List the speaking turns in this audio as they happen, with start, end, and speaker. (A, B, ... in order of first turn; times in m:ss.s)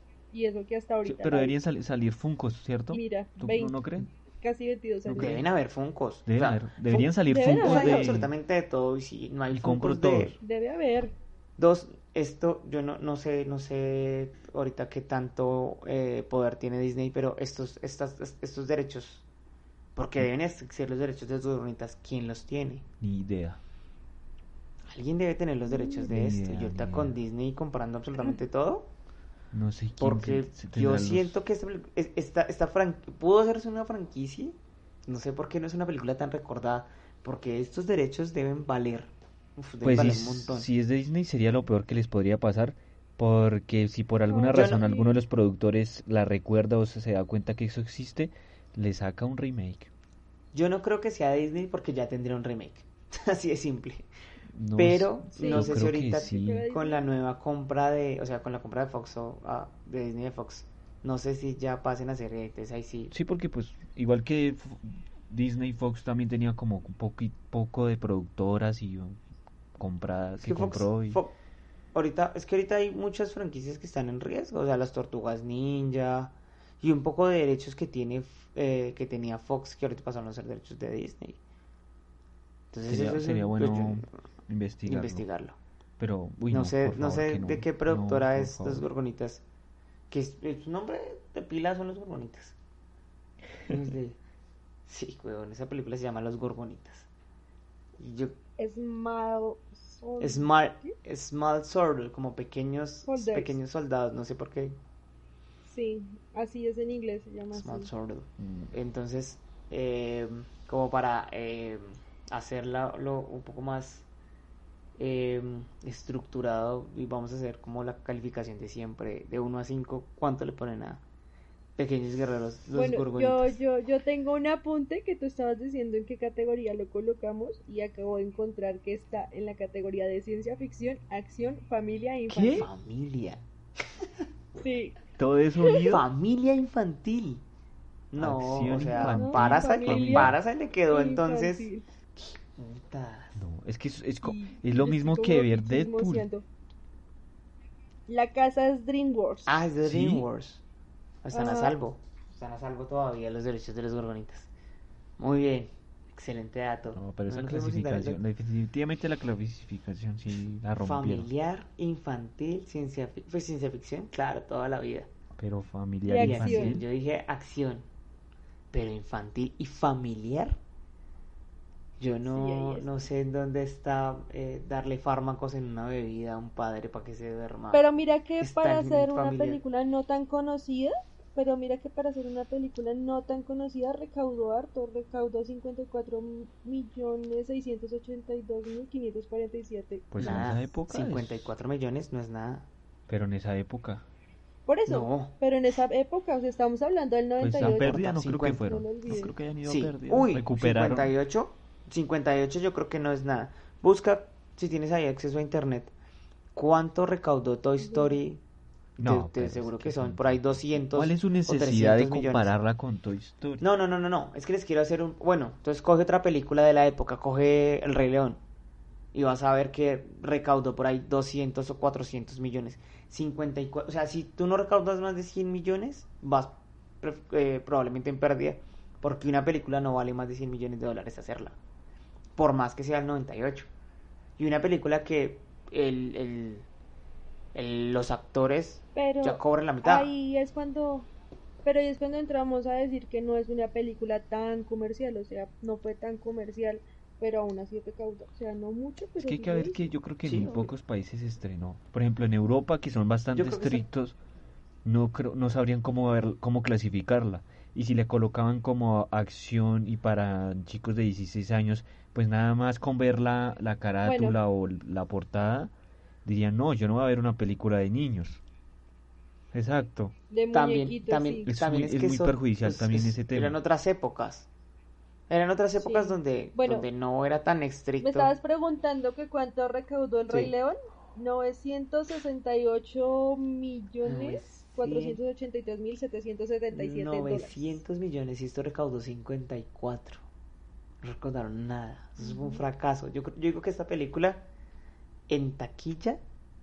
0:00.3-0:01.6 A
0:01.0-0:04.1 B
0:02.9-0:05.4 A
0:05.0-0:05.4 B
0:05.2-0:10.4 C
0:06.3-0:08.3 B
0:06.9-0:08.2 A
0:09.5-0:10.4 B
0:10.4-0:11.1 A
0:11.6-0:19.2 C
0:20.0-0:22.8 C
0:23.0-0:23.6 B
0:24.9-0:28.9 C
0:26.1-0:27.2 B
0:29.5-0:31.4 B
0:30.0-0:40.7 C
0:39.8-0:49.9 B
0:44.3-0:45.2 A
0:44.5-0:44.9 C
0:50.5-0:54.1 C
0:54.5-0:56.7 B
0:54.8-1:03.1 C
0:55.3-0:57.0 A
1:03.1-1:09.2 B
1:09.8-1:11.2 B
1:10.4-1:11.3 C
1:11.9-1:21.4 C
1:22.7-1:24.1 C
1:22.9-1:25.2 B
1:24.9-1:25.6 C
1:26.0-1:28.8 B
1:26.5-1:29.4 C
1:30.1-1:32.6 C
1:33.7-1:34.2 C
1:34.9-1:37.1 C
1:38.0-1:38.4 C
1:38.6-1:40.9 A
1:40.2-1:44.8 C
1:43.1-1:43.6 A
1:45.6-1:47.9 A
1:47.5-1:54.1 C
1:48.4-1:48.7 B
1:55.0-2:01.0 C
2:01.8-2:03.6 C
2:02.7-2:12.7 A
2:12.3-2:13.4 C
2:12.3-2:12.7 B
2:14.6-2:15.0 A
2:15.2-2:16.1 B
2:15.6-2:15.9 A
2:15.9-2:17.4 C
2:18.1-2:23.4 C
2:18.2-2:20.4 B
2:19.0-2:20.4 A
2:20.9-2:21.9 A
2:23.4-2:26.3 B
2:24.2-2:26.4 A
2:28.1-2:29.5 A
2:29.5-2:30.6 C
2:29.8-2:30.3 B
2:31.2-2:34.5 C
2:31.3-2:31.8 A
2:35.2-2:38.2 C
2:37.0-2:41.3 B
2:40.8-2:45.1 C
2:45.4-2:46.9 B
2:46.1-2:46.8 A
2:46.2-2:47.9 C
2:48.7-2:50.6 C
2:52.0-2:57.8 C
2:52.2-2:52.9 A
2:57.7-3:10.5 A
2:58.4-2:59.6 C
3:10.1-3:11.5 B
3:10.2-3:12.7 C
3:13.1-3:14.0 B
3:14.7-3:19.3 A
3:14.9-3:15.3 C
3:17.4-3:21.1 B
3:17.6-3:18.7 C
3:19.6-3:25.9 C
3:26.6-3:28.4 C
3:27.9-3:28.1 A
3:29.0-3:32.5 C
3:29.0-3:33.6 B
3:33.6-3:38.4 C
3:39.1-3:51.6 C
3:52.4-3:53.7 C
3:54.4-3:56.7 C
3:57.6-4:00.1 C
3:59.0-4:01.1 A
4:01.6-4:09.8 A
4:09.2-4:14.2 B
4:10.2-4:10.7 C
4:13.4-4:13.9 C
4:14.8-4:25.7 B
4:24.0-4:24.4 A
4:26.2-4:28.4 B
4:29.5-4:30.2 B
4:30.3-4:31.5 A
4:30.5-4:34.5 C
4:31.5-4:33.6 B
4:35.3-4:38.3 C
4:35.8-4:36.9 A
4:38.0-4:47.8 A
4:40.3-4:40.5 C
4:44.0-4:45.2 C
4:46.7-4:50.2 C
4:51.0-4:54.4 C
4:52.2-4:52.6 A
4:55.3-4:56.2 C